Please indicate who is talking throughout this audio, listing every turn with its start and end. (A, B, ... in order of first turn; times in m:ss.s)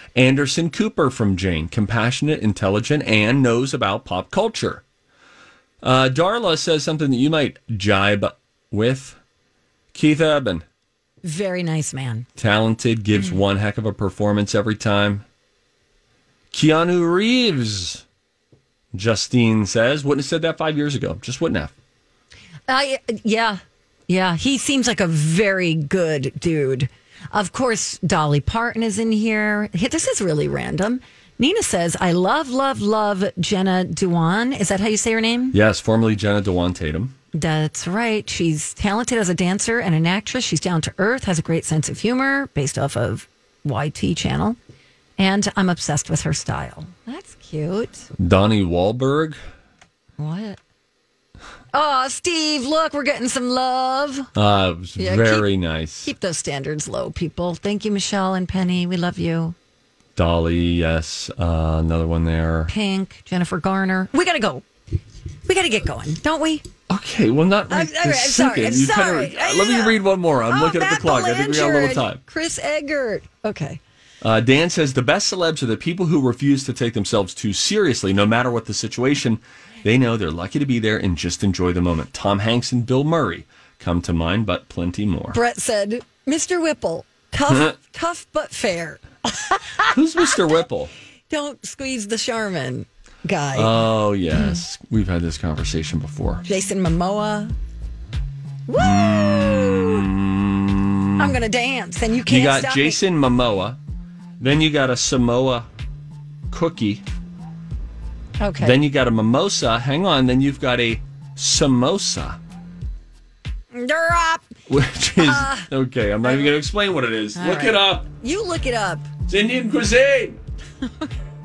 0:00.2-0:04.8 A
0:05.8-0:09.2 A
0:09.9-0:10.6 A
0:11.2-0:12.3 B
0:12.4-0:15.2 A
0:16.5-0:18.0 A
0:18.9-0:21.7 A
0:22.7-0:35.6 B
0:35.5-0:37.2 A
0:37.3-0:44.6 B
0:45.2-0:48.1 B
0:48.2-0:49.4 A
0:50.2-0:50.6 B
0:51.7-0:54.3 B
0:54.4-0:56.1 A
0:55.0-0:55.5 B
0:56.0-0:59.6 B
1:00.2-1:02.7 A
1:02.7-1:04.6 B
1:05.5-1:06.6 B
1:06.9-1:12.2 A
1:07.7-1:13.8 B
1:14.2-1:25.4 A
1:25.3-1:29.9 B
1:29.9-1:30.9 A
1:31.3-1:33.8 B
1:33.6-1:36.4 A
1:36.5-1:37.6 B
1:38.7-1:40.1 B
1:38.8-1:41.3 A
1:41.2-1:43.0 B
1:42.3-1:43.8 A
1:44.4-1:45.7 A
1:46.5-1:47.0 A
1:48.4-1:48.8 B
1:48.6-1:52.4 A
1:53.7-1:54.5 B
1:54.7-1:58.1 A
1:55.2-1:55.7 B
1:56.2-1:56.6 B
1:57.4-1:59.1 B
1:59.3-2:00.4 A